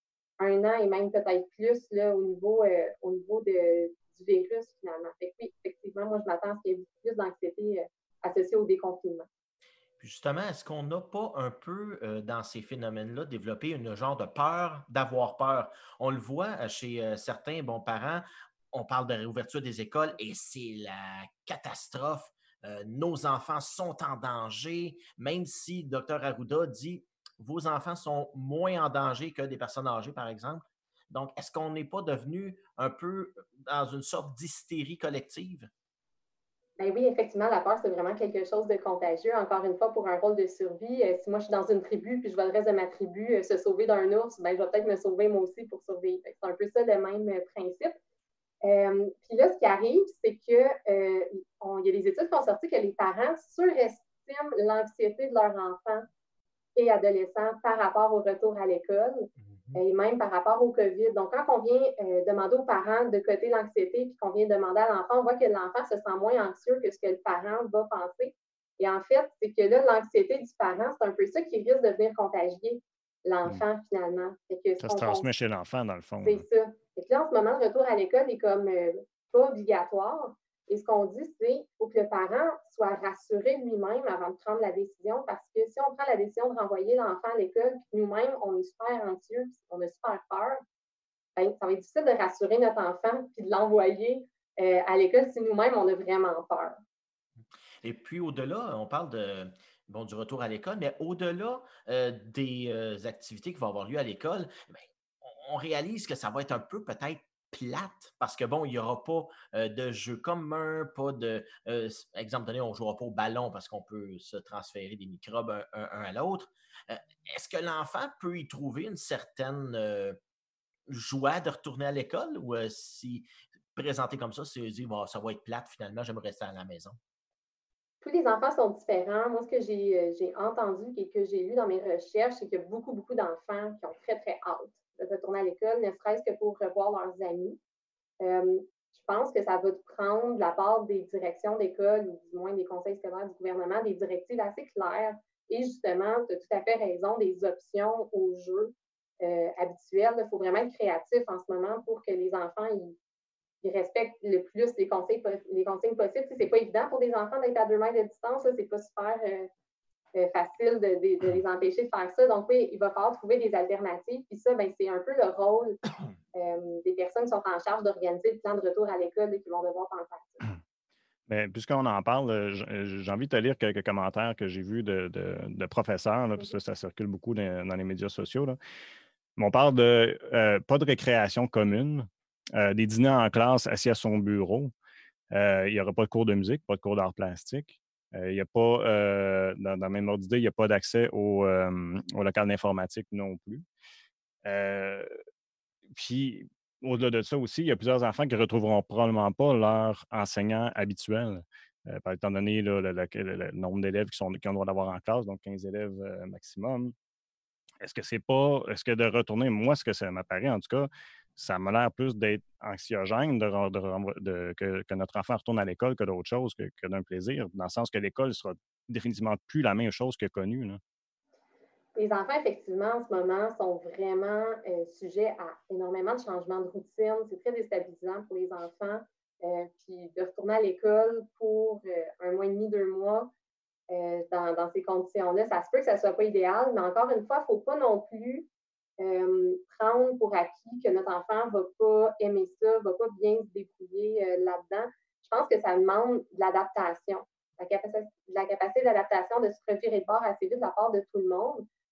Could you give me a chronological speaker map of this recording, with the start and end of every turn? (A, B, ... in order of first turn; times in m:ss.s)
0:00.4-0:09.3 A
0:10.0-0:35.7 B
0:36.8-0:48.0 A
0:48.6-0:56.1 A
0:56.8-1:15.3 A
0:59.5-0:59.8 B
1:14.8-1:16.4 C
1:16.2-1:30.6 A
1:31.4-1:36.8 A
1:37.8-2:00.2 B
2:00.9-2:07.0 B
2:08.0-2:17.6 A
2:18.2-2:33.0 A
2:33.6-2:39.5 A
2:40.2-2:45.8 A
2:46.3-2:50.5 A
2:51.3-2:58.6 C
2:59.4-3:04.7 C
3:05.3-3:13.6 C
3:14.4-3:15.2 C
3:15.9-3:26.9 C
3:27.8-3:40.8 C
3:42.0-3:53.3 A
3:53.9-3:58.5 A
3:59.0-4:11.7 A